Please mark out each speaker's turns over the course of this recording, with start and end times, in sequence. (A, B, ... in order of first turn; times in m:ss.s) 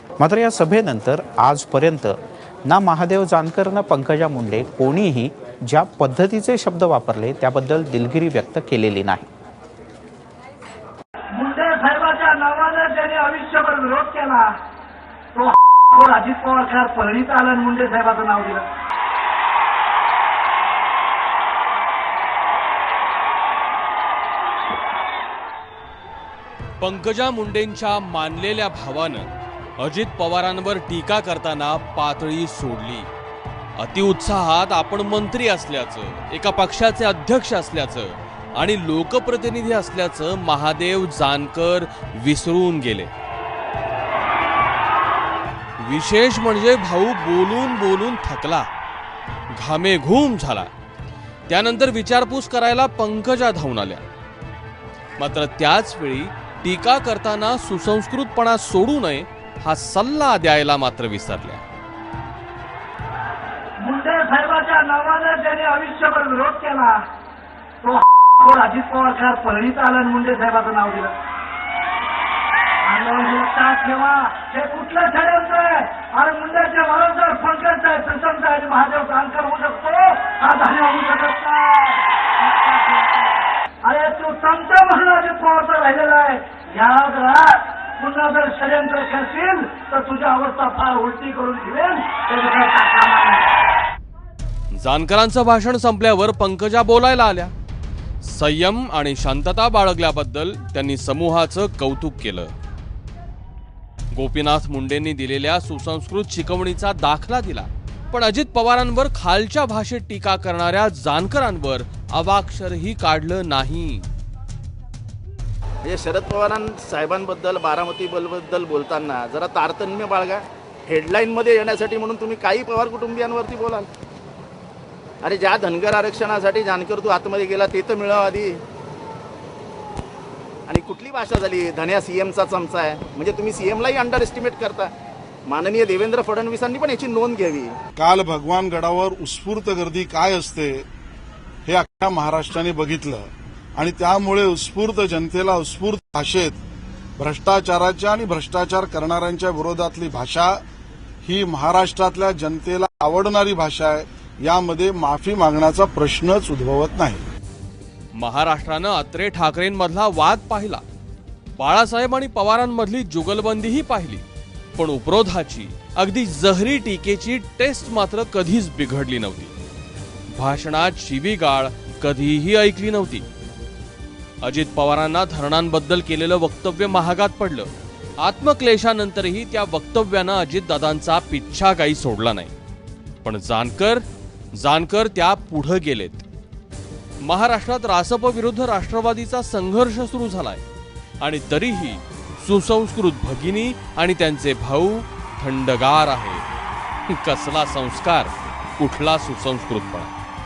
0:00.2-0:09.3 A
0:11.3-0:14.5 B
0:15.3-0:18.6 B
0:26.8-0:33.1 C
0:33.8-0:43.1 C
0:45.8-0:48.7 C
0:49.5-0:50.7 C
0:51.5-0:54.1 C
0:55.2-1:01.6 C
1:03.8-1:07.0 B
1:07.8-1:11.1 B
1:12.8-1:33.5 B
1:34.7-1:37.5 C
1:38.2-1:42.5 C
1:44.1-1:54.1 C
1:55.8-2:03.9 D
2:05.2-2:08.6 D
2:10.7-2:14.9 D
2:15.5-2:17.8 D
2:18.0-2:20.8 E
2:21.6-2:26.6 E
2:27.2-2:30.6 E
2:31.2-2:37.2 E
2:38.1-2:40.8 C
2:41.6-2:44.2 C
2:44.8-2:49.5 C
2:50.3-2:53.2 C
2:54.4-3:02.5 C
3:03.2-3:06.2 C
3:07.2-3:10.6 C
3:11.2-3:16.4 C
3:17.1-3:20.1 C